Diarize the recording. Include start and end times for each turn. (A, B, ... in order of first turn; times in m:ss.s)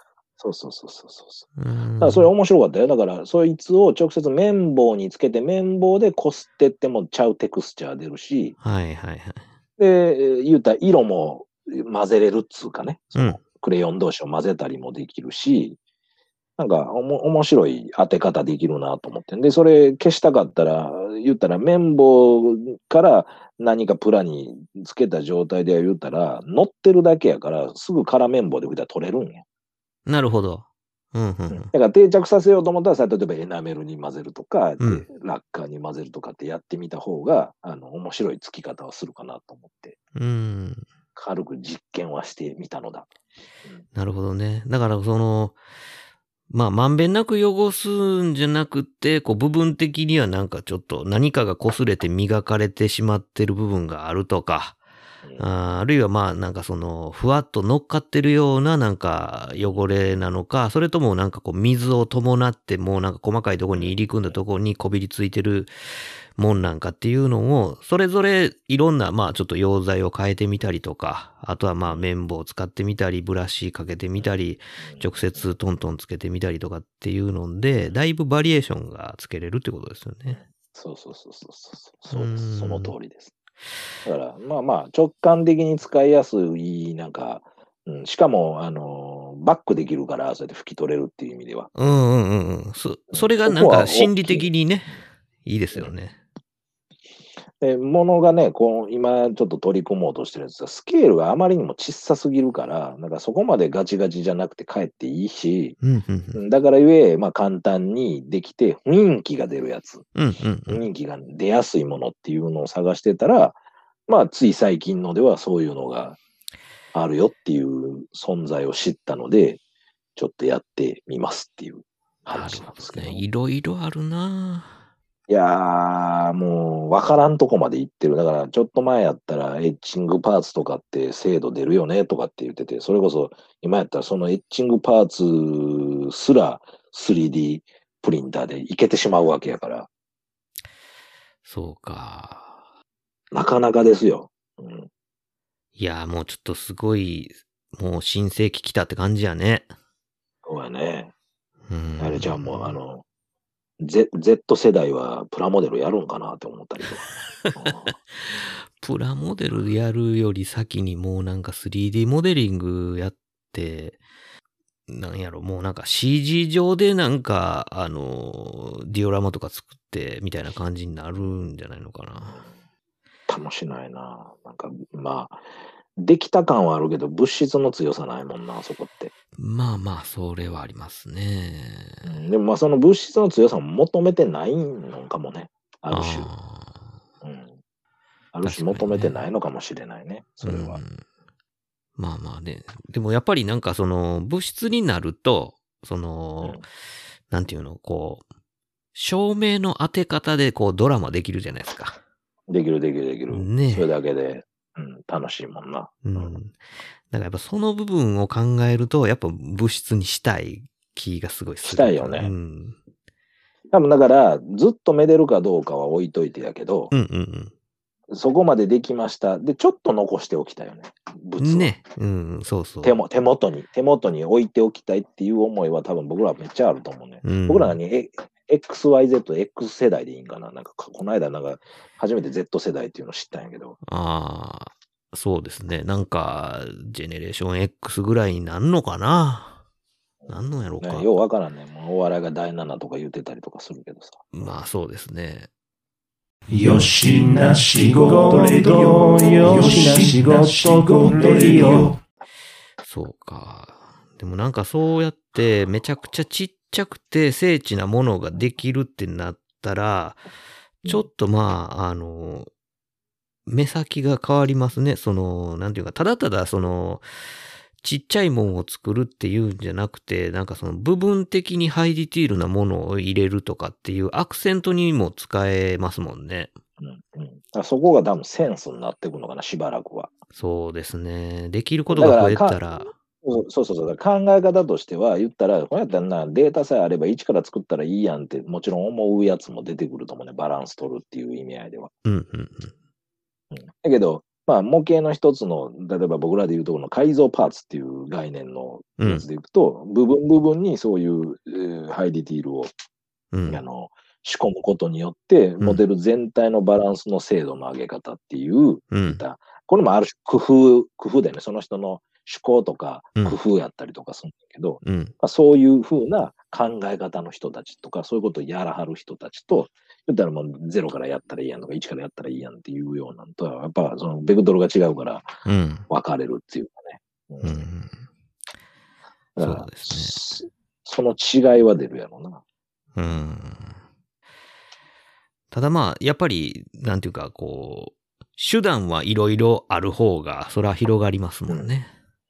0:00.4-0:01.5 A
0:01.6-0:02.3 B
0:02.0-0:08.6 A
0:08.6-0:09.4 B
0:09.8-0:15.8 A
0:16.6-0:29.4 A
0:30.1-0:31.7 B
0:31.5-0:40.0 A
0:34.8-0:35.1 B
0:40.2-0:40.8 B
0:41.2-0:43.1 A
0:44.0-0:45.6 B
0:46.5-0:54.8 B
0:55.2-0:55.5 A
0:55.4-1:05.7 B
1:03.7-1:04.4 A
1:06.4-1:20.4 B
1:14.8-1:15.5 A
1:20.3-1:23.3 A
1:22.1-1:22.9 B
1:24.0-1:31.7 A
1:31.8-1:36.2 B
1:33.1-1:34.5 A
1:37.6-1:45.8 A
1:45.8-1:46.4 B
1:46.3-1:50.0 A
1:50.2-1:50.8 B
1:50.7-1:56.2 A
1:56.9-1:59.6 A
2:00.2-2:03.2 A
2:02.3-2:04.8 B
2:05.3-2:19.9 A
2:21.4-2:22.6 B
2:23.3-2:24.9 A
2:25.8-2:29.7 B
2:30.4-2:31.1 A
2:31.7-2:32.8 B
2:32.0-2:33.0 A
2:33.8-2:38.0 A
2:37.4-2:44.0 B
2:44.9-2:52.4 B
2:53.3-2:55.4 A
2:56.0-2:59.1 A
2:59.4-3:02.1 B
3:02.0-3:06.3 A
3:05.9-3:06.9 B
3:07.2-3:07.6 A
3:08.3-3:10.8 A
3:08.4-3:09.2 B
3:10.4-3:11.0 B
3:12.0-3:16.7 B
3:17.3-3:18.2 B
3:19.0-3:22.0 B
3:22.5-3:26.4 A
3:23.3-3:23.9 B
3:26.0-3:32.8 B
3:31.6-3:32.3 A
3:33.7-3:36.9 A
3:36.9-3:37.5 B
3:38.1-3:41.8 A
3:41.4-3:43.0 B
3:42.8-3:53.8 A
3:47.2-3:47.8 B
3:53.9-3:59.6 B
4:00.2-4:04.3 A
4:00.3-4:01.2 B
4:04.3-4:05.5 B
4:06.7-4:07.0 B
4:06.8-4:11.8 C
4:07.7-4:10.4 B
4:11.2-4:11.8 B
4:12.8-4:20.2 B
4:20.8-4:22.5 B
4:23.5-4:27.0 B
4:27.8-4:36.5 B
4:36.8-4:40.1 A
4:40.3-4:42.9 B
4:41.9-4:42.6 A
4:43.2-4:51.9 A
4:52.0-4:52.7 B
4:53.5-5:02.7 A
5:03.3-5:03.6 B
5:03.5-5:25.4 A
5:08.9-5:09.2 B
5:14.8-5:15.1 B
5:25.4-5:25.9 B
5:25.9-5:27.7 A
5:27.4-5:28.0 B
5:29.4-5:32.4 A
5:29.4-5:30.2 B
5:33.0-5:33.8 B
5:35.5-5:41.9 B